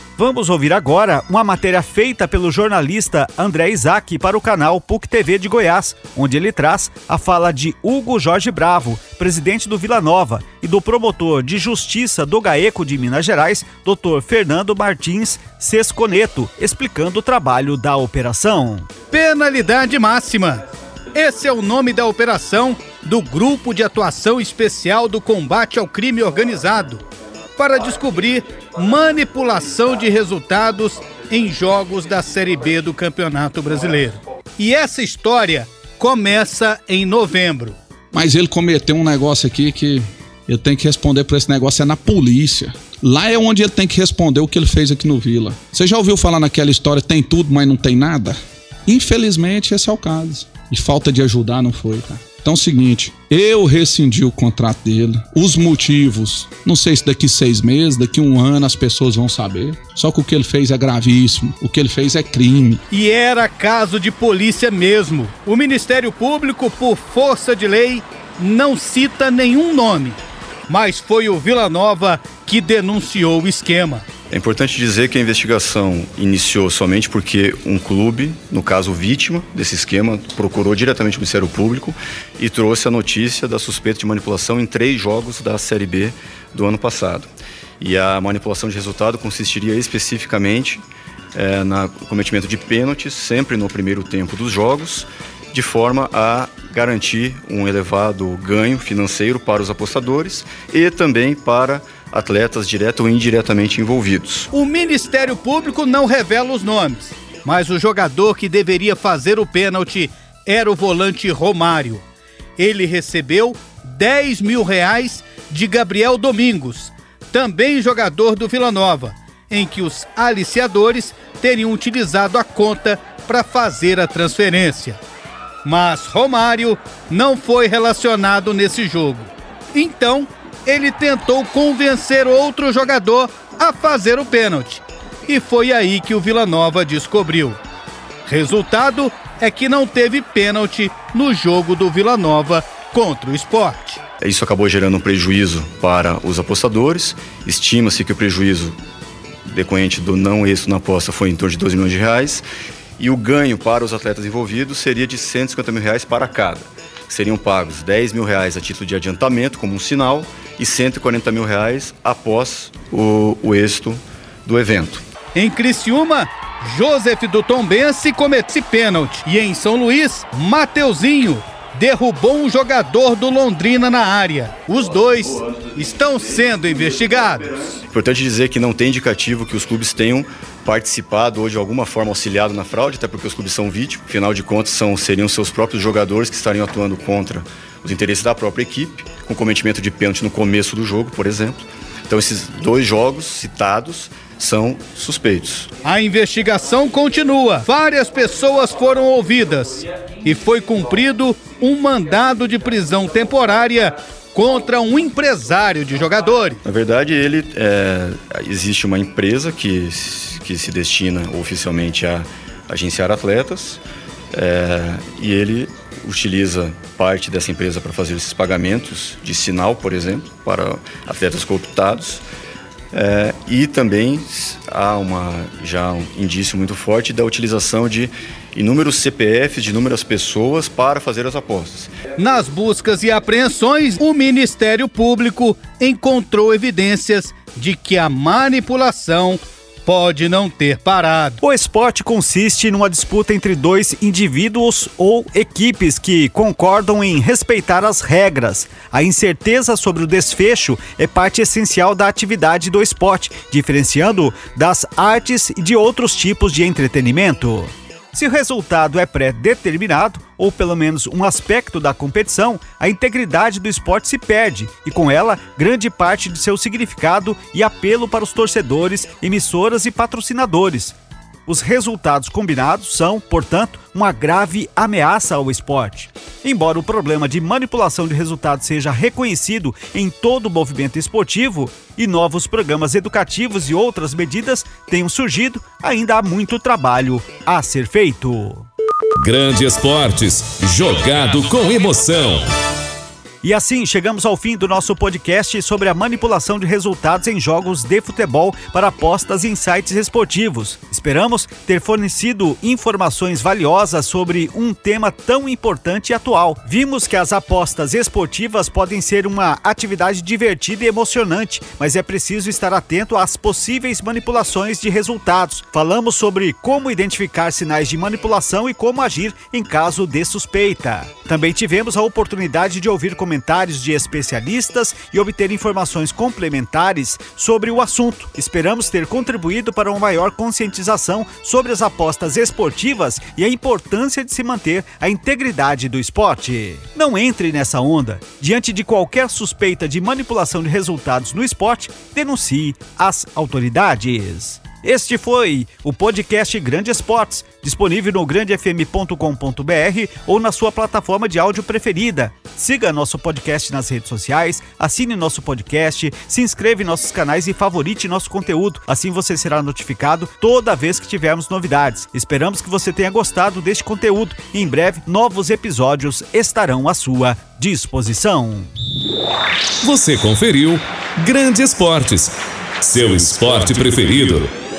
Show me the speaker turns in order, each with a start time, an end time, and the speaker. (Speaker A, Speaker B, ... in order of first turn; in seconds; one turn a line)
Speaker A: 0.2-18.9
Speaker B: 19.1-20.6
Speaker B: 21.1-27.0
Speaker B: 27.6-37.8
Speaker C: 38.1-62.8
Speaker B: 62.9-74.0
Speaker D: 74.3-104.5
Speaker B: 104.5-112.0
Speaker B: 112.6-125.0
Speaker B: 125.6-137.6
Speaker B: 138.2-144.0
Speaker D: 144.2-148.8
Speaker D: 149.5-152.4
Speaker D: 153.0-165.0
Speaker B: 165.3-177.7
Speaker D: 177.8-195.7
Speaker B: 195.8-206.6
Speaker D: 206.6-213.8
Speaker D: 214.3-222.2
Speaker D: 222.9-231.9
Speaker B: 232.2-241.4
Speaker A: 241.4-288.7
Speaker E: 289.2-292.5
Speaker A: 293.4-368.7
Speaker E: 369.8-374.5